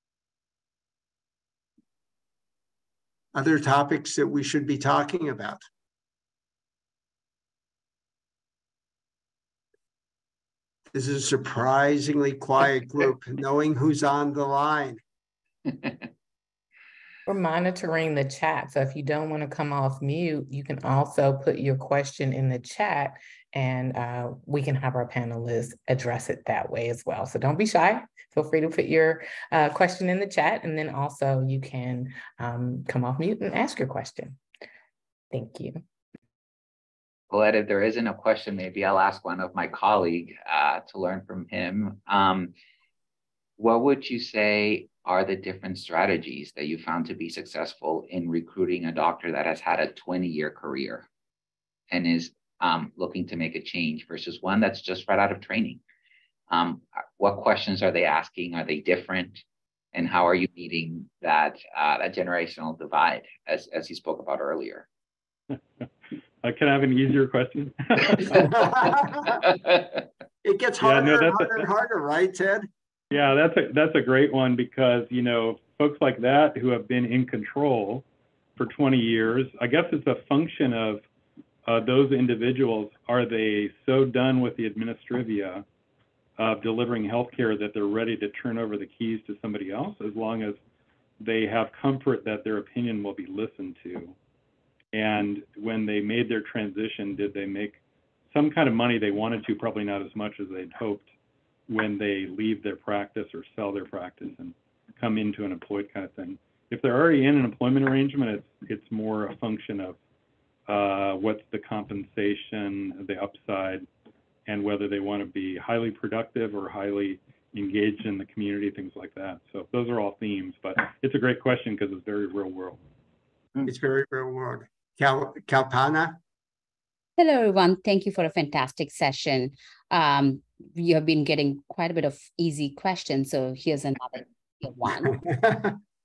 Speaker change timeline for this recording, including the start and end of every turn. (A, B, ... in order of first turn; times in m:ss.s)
0:03.3-0:05.6 A
0:10.9-0:15.0 A
0:17.2-0:34.4 B
0:35.3-0:35.8 B
0:37.3-0:42.5 C
0:43.6-0:51.1 C
0:51.9-0:55.8 C
0:56.5-0:59.4 C
0:59.9-1:04.9 C
1:06.4-1:08.5 D
1:08.4-1:09.4 A
1:10.4-1:12.7 A
1:10.8-1:11.6 D
1:13.1-1:18.0 D
1:18.6-1:21.0 D
1:21.6-1:25.6 D
1:26.4-1:30.6 D
1:31.2-1:34.1 D
1:34.9-1:41.1 D
1:41.7-1:50.0 D
1:50.7-1:53.8 D
1:54.4-2:02.8 D
2:03.6-2:06.2 A
2:07.2-2:15.2 E
2:15.3-2:15.8 A